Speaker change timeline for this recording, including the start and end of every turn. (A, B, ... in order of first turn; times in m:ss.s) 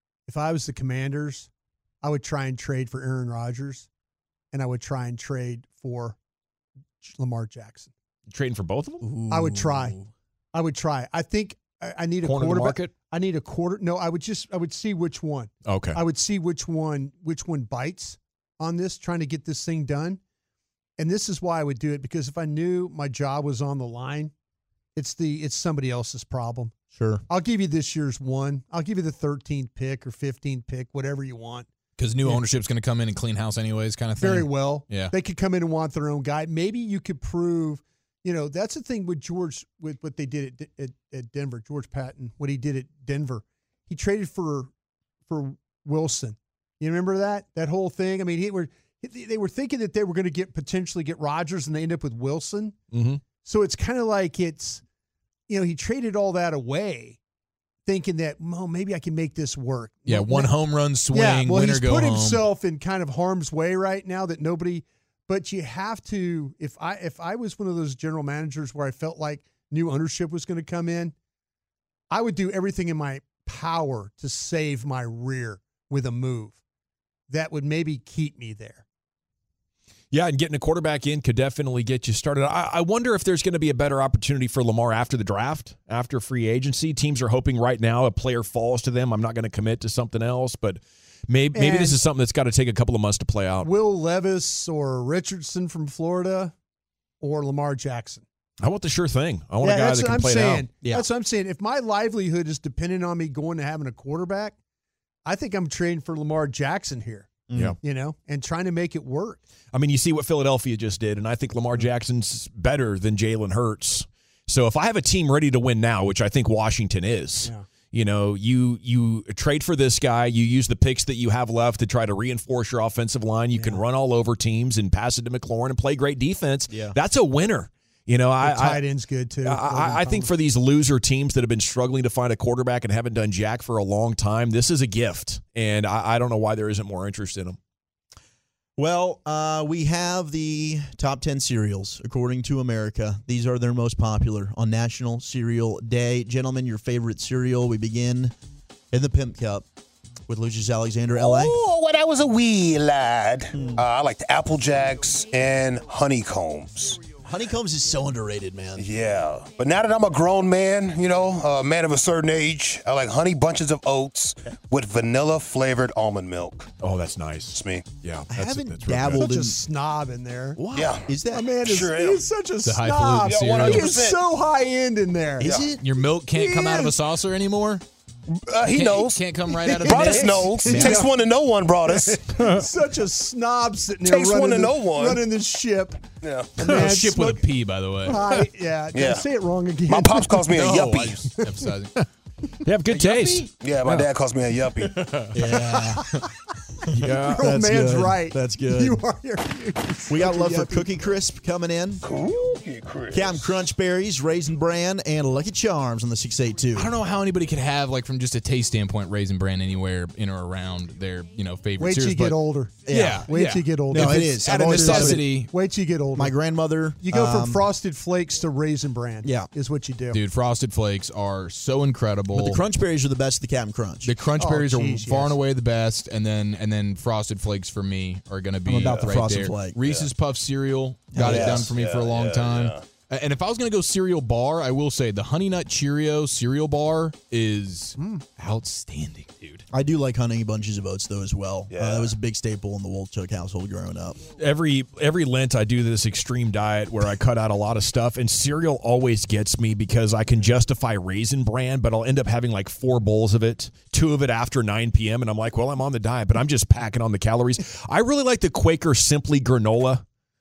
0:00.3-0:01.5 A
0:02.0-0:03.9 A
0:04.5-0:06.2 A
0:07.0-0:07.9 A
0:08.3-0:09.2 B
0:09.0-0:10.1 C
0:09.3-0:10.0 A
0:10.5-0:20.2 A
0:12.2-0:13.0 B
0:15.6-0:16.0 B
0:21.0-0:24.3 A
0:25.0-0:26.8 A
0:26.9-0:27.2 C
0:27.3-0:31.7 A
0:32.0-0:35.1 D
0:34.2-0:44.7 A
0:45.3-0:52.8 A
0:52.9-0:53.2 B
0:53.4-0:54.8 A
0:55.5-0:57.2 A
0:57.9-1:11.1 A
1:00.1-1:02.5 D
1:12.1-1:16.6 A
1:17.3-1:18.8 A
1:20.1-1:33.7 B
1:31.5-1:32.0 A
1:33.6-1:36.5 A
1:37.2-1:38.2 A
1:38.6-1:40.8 B
1:39.6-1:44.6 A
1:45.2-1:49.4 A
1:47.5-1:47.8 C
1:49.7-2:08.8 B
2:03.6-2:03.8 A
2:06.7-2:07.0 C
2:08.4-2:10.3 A
2:09.4-2:17.6 B
2:18.8-2:28.4 C
2:28.9-2:29.6 C
2:30.3-2:31.6 C
2:31.2-2:37.1 E
2:33.5-2:33.8 C
2:37.2-2:38.9 C
2:38.8-2:46.7 E
2:46.8-2:49.2 B
2:47.5-2:47.9 E
2:48.3-2:49.6 C
2:49.2-2:50.6 A
2:50.6-2:50.9 B
2:50.7-2:52.3 E
2:50.8-2:51.5 C
2:51.3-2:55.6 A
2:52.6-2:53.9 D
2:53.2-2:54.2 E
2:55.4-2:55.8 C
2:55.8-2:57.8 D
2:56.3-2:57.0 A
2:58.3-3:02.2 E
2:58.6-3:01.0 D
2:59.6-3:01.1 A
3:01.9-3:07.5 A
3:02.3-3:02.7 B
3:04.0-3:05.2 E
3:06.2-3:06.6 E
3:06.6-3:08.2 D
3:08.0-3:10.5 A
3:08.9-3:09.3 E
3:09.9-3:11.3 E
3:10.5-3:12.0 D
3:12.6-3:14.1 B
3:13.5-3:15.0 E
3:15.0-3:15.4 D
3:15.3-3:16.1 C
3:16.9-3:17.5 B
3:16.9-3:19.0 C
3:17.1-3:20.9 A
3:20.1-3:22.1 C
3:22.0-3:23.5 E
3:23.1-3:27.0 C
3:26.7-3:35.5 D
3:31.8-3:36.4 A
3:32.8-3:33.3 C
3:33.9-3:35.3 C
3:36.2-3:37.7 C
3:37.0-3:40.2 A
3:39.2-3:39.5 C
3:40.1-3:42.6 D
3:42.3-3:44.1 C
3:44.0-3:59.6 D
3:44.4-3:45.4 A
3:48.7-3:49.8 C
3:51.1-3:51.7 C
3:51.2-3:52.8 E
3:58.0-3:58.2 A
3:59.7-4:04.2 C
4:01.7-4:02.1 E
4:04.4-4:20.0 B